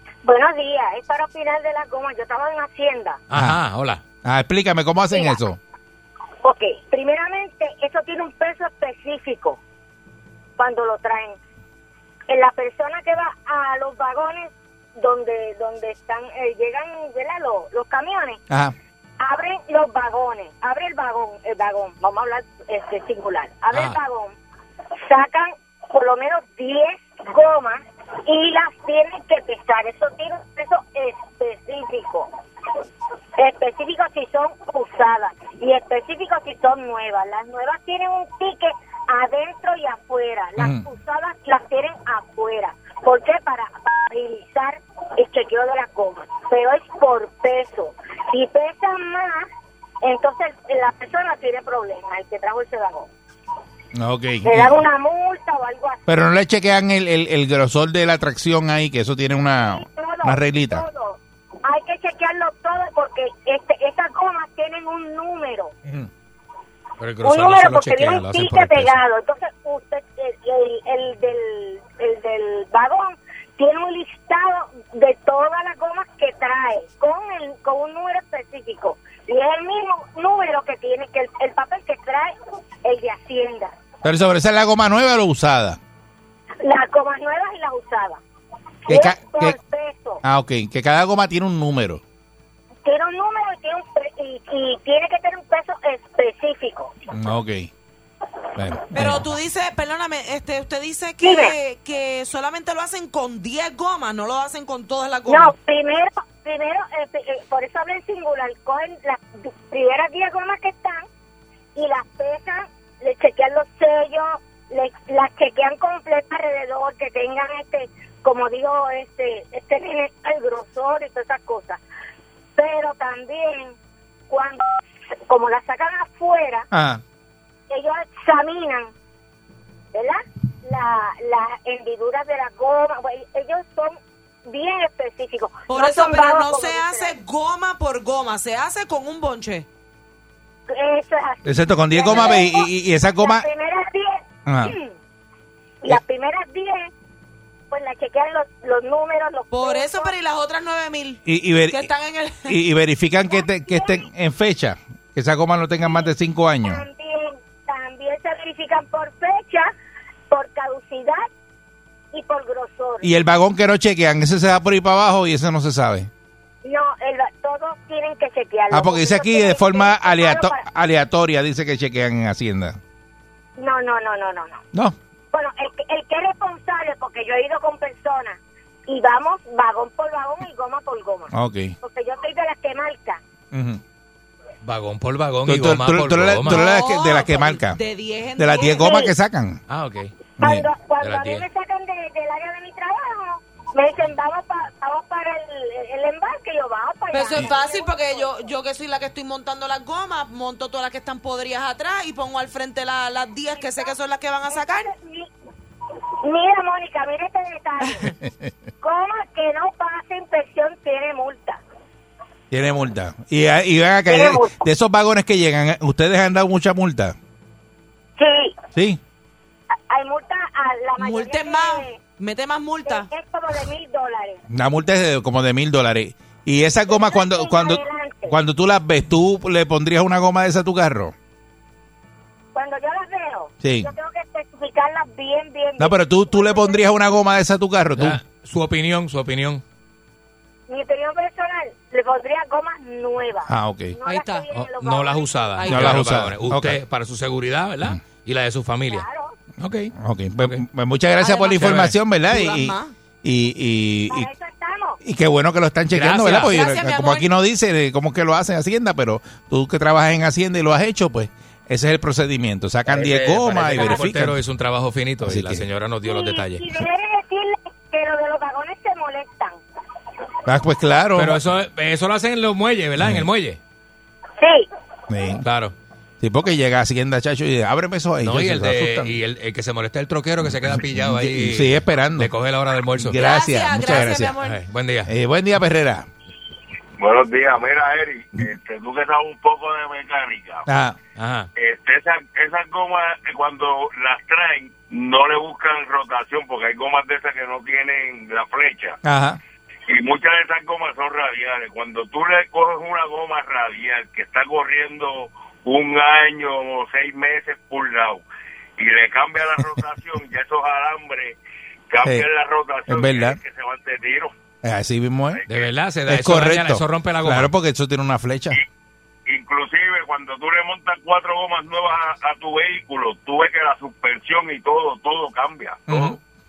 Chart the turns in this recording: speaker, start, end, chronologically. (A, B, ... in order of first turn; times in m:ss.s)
0:00.2-0:03.2 A
0:03.3-0:04.0 B
0:03.3-0:03.6 C
0:04.2-0:05.6 C
0:05.1-0:05.4 A
0:06.4-0:09.6 A
0:10.6-0:11.4 A
0:12.3-0:18.4 A
0:19.2-0:24.3 A
0:23.7-0:24.0 B
0:25.0-0:32.3 A
0:33.4-0:49.5 A
0:40.6-0:40.8 C
0:50.0-0:53.1 A
0:53.9-0:54.8 C
0:54.4-0:56.0 A
0:56.1-1:00.8 C
0:59.6-1:05.7 A
1:07.0-1:09.0 B
1:07.2-1:23.7 A
1:24.0-1:25.8 C
1:26.6-1:28.2 A
1:28.9-1:30.2 A
1:28.9-1:29.6 C
1:30.2-1:32.0 C
1:32.8-1:36.9 A
1:37.1-1:37.7 C
1:38.6-1:39.2 C
1:38.9-1:45.5 D
1:41.2-1:41.5 A
1:45.3-1:51.0 A
1:51.7-2:01.8 A
2:02.6-2:03.8 A
2:04.3-2:04.7 A
2:05.3-2:06.7 A
2:06.7-2:07.0 C
2:07.7-2:08.9 A
2:09.9-2:17.2 A
2:15.7-2:19.6 D
2:20.7-2:24.9 A
2:21.4-2:23.4 C
2:24.4-2:24.7 C
2:25.8-2:26.9 A
2:27.7-2:30.1 A
2:29.5-2:32.6 D
2:31.2-2:31.9 C
2:32.5-2:36.8 C
2:33.3-2:34.0 A
2:35.8-2:36.1 A
2:36.6-2:39.7 A
2:40.3-2:41.3 A
2:42.1-2:43.1 A
2:43.0-2:46.1 C
2:46.6-2:50.6 A
2:48.7-2:52.8 C
2:53.6-2:54.6 A
2:55.3-3:03.2 A
3:01.3-3:01.7 C
3:03.5-3:03.8 C
3:04.6-3:06.6 B
3:05.4-3:07.8 C
3:06.4-3:09.1 D
3:08.4-3:09.6 C
3:08.5-3:09.1 A
3:09.7-3:10.1 B
3:10.4-3:10.7 C
3:10.4-3:18.5 A
3:11.0-3:11.4 B
3:17.1-3:24.9 D
3:23.6-3:23.9 A
3:24.5-3:25.3 A
3:26.2-3:28.1 A
3:28.8-3:31.6 A
3:32.5-3:37.2 C
3:34.1-3:34.5 A
3:38.2-3:38.6 A
3:38.7-3:39.0 C
3:39.9-3:42.0 A
3:41.0-3:43.1 D
3:42.9-3:44.4 A
3:44.5-3:51.1 C
3:46.9-3:48.4 A
3:52.5-3:56.9 A
3:53.6-3:53.9 C
3:55.8-3:58.2 C
3:58.0-3:59.6 B
4:00.7-4:05.3 A
4:03.5-4:03.9 C
4:04.0-4:04.5 D
4:04.5-4:09.1 B
4:05.6-4:06.0 D
4:05.7-4:06.8 C
4:08.9-4:09.4 A
4:09.6-4:10.6 B
4:10.0-4:14.3 C
4:11.2-4:11.7 D
4:11.5-4:12.0 B
4:12.3-4:12.9 D
4:14.1-4:15.0 A
4:15.0-4:24.4 C
4:15.9-4:16.6 B
4:16.4-4:17.3 D
4:22.9-4:26.8 B
4:25.2-4:25.6 C
4:26.0-4:29.6 A
4:30.4-4:31.4 C
4:31.1-4:33.6 B
4:33.0-4:33.2 C
4:34.4-4:34.7 A
4:35.1-4:35.4 C
4:35.4-4:35.7 B
4:36.2-4:39.1 C
4:38.2-4:43.2 B
4:40.7-4:42.3 C
4:42.9-4:44.4 C
4:43.2-4:44.6 D
4:44.4-4:45.1 B
4:45.1-4:46.1 C
4:47.0-4:50.6 E
4:50.7-4:51.0 C
4:51.2-4:51.5 B
4:51.6-4:59.0 E
4:59.0-4:59.4 C
4:59.9-5:08.2 E
5:08.8-5:11.4 E
5:11.9-5:14.3 E
5:12.9-5:13.4 C
5:14.6-5:15.4 C
5:15.3-5:15.7 E
5:15.5-5:17.5 B
5:16.1-5:18.6 C
5:19.3-5:26.1 E
5:25.9-5:26.2 C